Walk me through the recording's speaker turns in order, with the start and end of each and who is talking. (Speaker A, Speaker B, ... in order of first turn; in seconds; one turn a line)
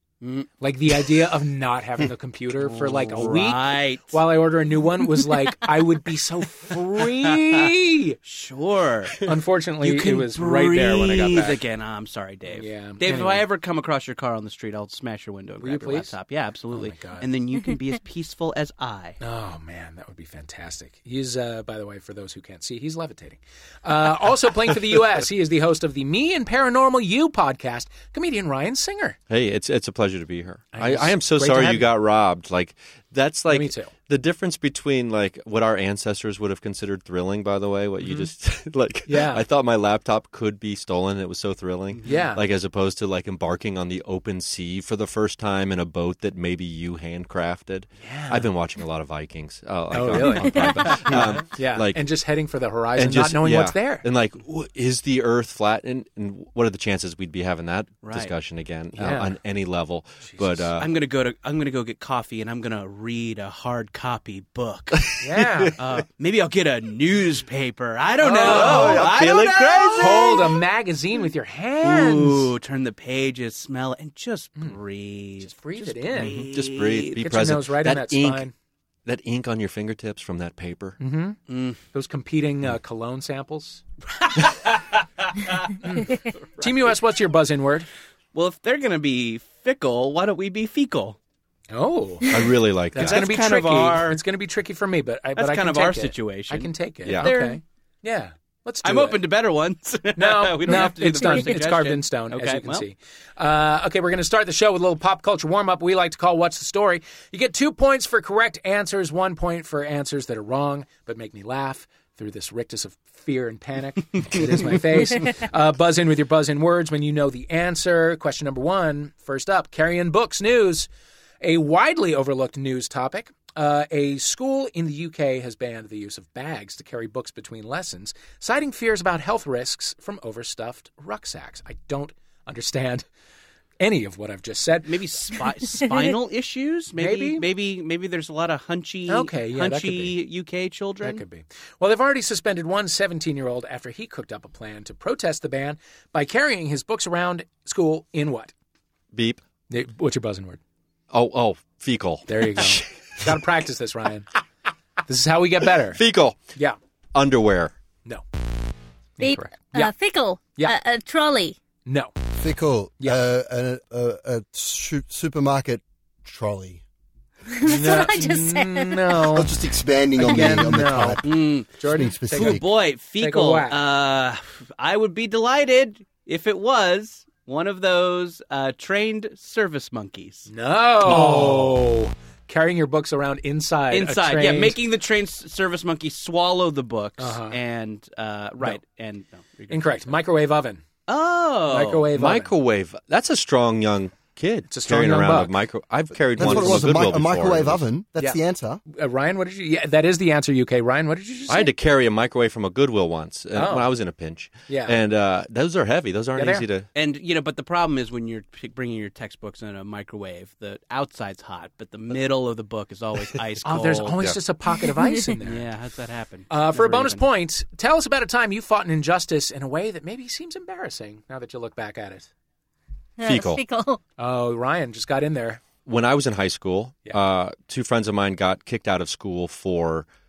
Speaker A: 0.2-0.5
Speaker B: 0.6-8.2
Speaker A: 2.6-4.2
Speaker A: 7.0-7.7
Speaker A: 8.2-19.2
Speaker B: 9.2-11.6
Speaker B: 12.5-13.5
Speaker B: 15.6-16.1
Speaker B: 16.7-17.2
Speaker B: 19.2-29.2
Speaker C: 29.3-52.1
Speaker B: 30.7-31.9
Speaker B: 33.5-33.9
Speaker B: 38.0-38.3
Speaker B: 39.1-39.5
Speaker B: 42.0-42.4
Speaker B: 48.0-48.5
Speaker B: 49.9-54.0
Speaker C: 53.0-60.9
Speaker A: 58.0-58.3
Speaker B: 59.0-59.4
Speaker B: 60.2-60.7
Speaker A: 60.8-65.1
Speaker B: 65.2-65.8
Speaker A: 65.8-70.6
Speaker B: 68.2-69.1
Speaker C: 68.3-70.5
Speaker B: 70.0-72.5
Speaker A: 71.8-77.2
Speaker B: 75.4-76.4
Speaker C: 76.2-78.5
Speaker B: 77.2-78.5
Speaker C: 79.1-81.0
Speaker B: 81.0-81.4
Speaker A: 81.5-81.8
Speaker B: 81.9-83.8
Speaker A: 84.5-84.8
Speaker B: 85.8-87.9
Speaker A: 88.3-91.2
Speaker B: 91.7-92.4
Speaker C: 92.3-93.3
Speaker B: 92.9-99.2
Speaker A: 93.0-94.2
Speaker A: 95.4-97.6
Speaker C: 97.1-97.4
Speaker A: 98.8-102.9
Speaker B: 100.2-120.9
Speaker B: 121.4-133.1
Speaker B: 133.8-135.0
Speaker A: 134.9-141.2
Speaker B: 137.0-137.4
Speaker B: 139.1-140.2
Speaker B: 141.0-148.5
Speaker C: 149.1-149.4
Speaker B: 149.7-150.6
Speaker C: 151.1-152.9
Speaker B: 152.3-154.3
Speaker B: 155.1-156.0
Speaker C: 155.9-156.4
Speaker C: 157.1-157.7
Speaker B: 159.2-159.9
Speaker D: 159.2-161.6
Speaker B: 161.8-162.1
Speaker E: 162.3-166.8
Speaker D: 167.5-169.3
Speaker B: 167.6-169.5
Speaker E: 169.3-172.7
Speaker B: 170.2-171.2
Speaker A: 171.2-171.8
Speaker B: 171.8-172.6
Speaker A: 172.3-180.5
Speaker B: 173.2-173.8
Speaker B: 180.5-184.8
Speaker A: 181.1-181.6
Speaker A: 183.9-190.1
Speaker B: 187.2-187.6
Speaker B: 189.7-190.8
Speaker A: 191.1-192.1
Speaker B: 191.7-192.5
Speaker C: 192.1-197.8
Speaker B: 194.7-195.6
Speaker E: 196.4-198.8
Speaker B: 196.4-196.9
Speaker B: 198.2-201.7
Speaker C: 201.5-206.9
Speaker B: 203.5-203.9
Speaker B: 204.7-205.0
Speaker B: 206.3-206.7
Speaker A: 206.9-214.2
Speaker B: 213.6-215.7
Speaker C: 214.1-214.4
Speaker A: 215.4-217.3
Speaker B: 216.5-222.3
Speaker D: 223.2-224.0
Speaker C: 223.2-223.6
Speaker B: 224.2-225.6
Speaker C: 225.9-230.1